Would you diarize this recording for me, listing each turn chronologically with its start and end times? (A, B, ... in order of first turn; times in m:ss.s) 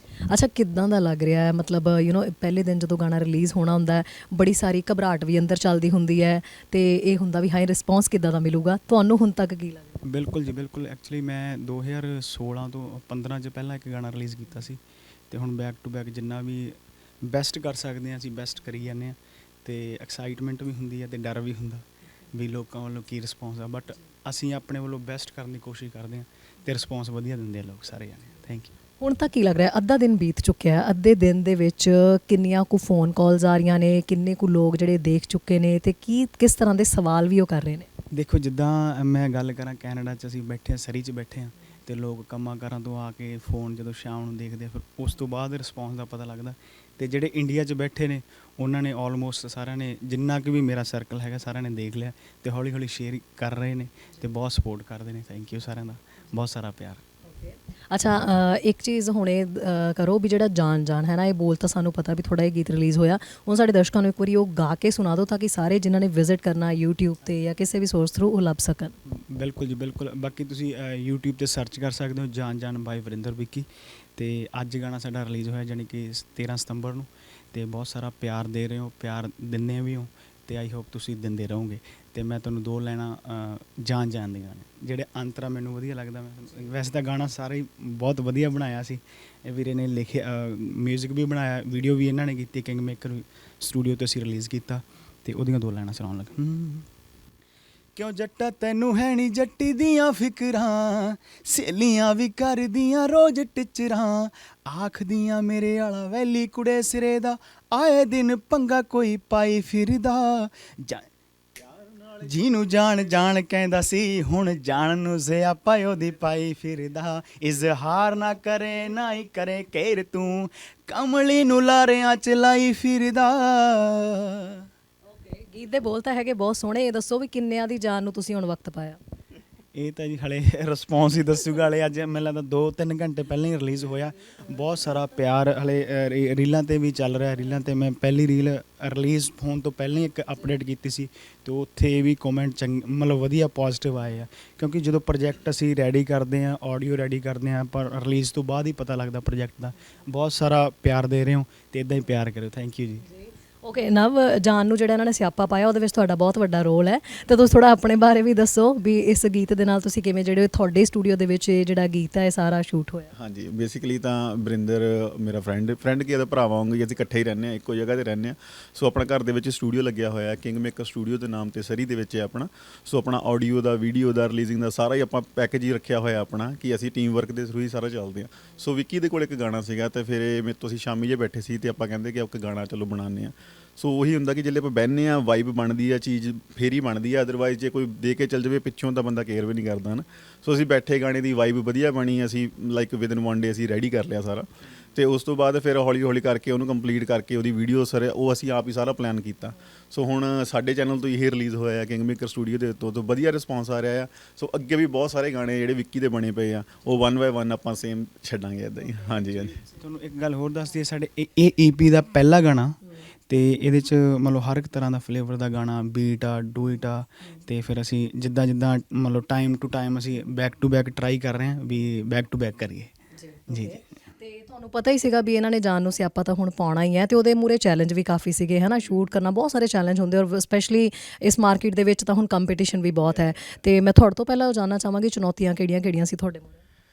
0:00.3-0:10.0 A
0:10.1-0:14.8 B
0:15.3-0:28.7 B
0:29.0-0:37.9 A
0:38.2-0:57.0 B
0:57.3-1:08.9 A
1:09.1-1:36.9 B
1:38.0-1:51.1 B
1:52.0-2:04.6 B
2:05.2-2:09.0 A
2:09.8-2:33.0 B
2:33.2-2:43.1 A
2:43.2-3:29.6 C
3:29.3-3:42.9 B
3:43.2-3:56.6 A
3:43.5-3:43.8 B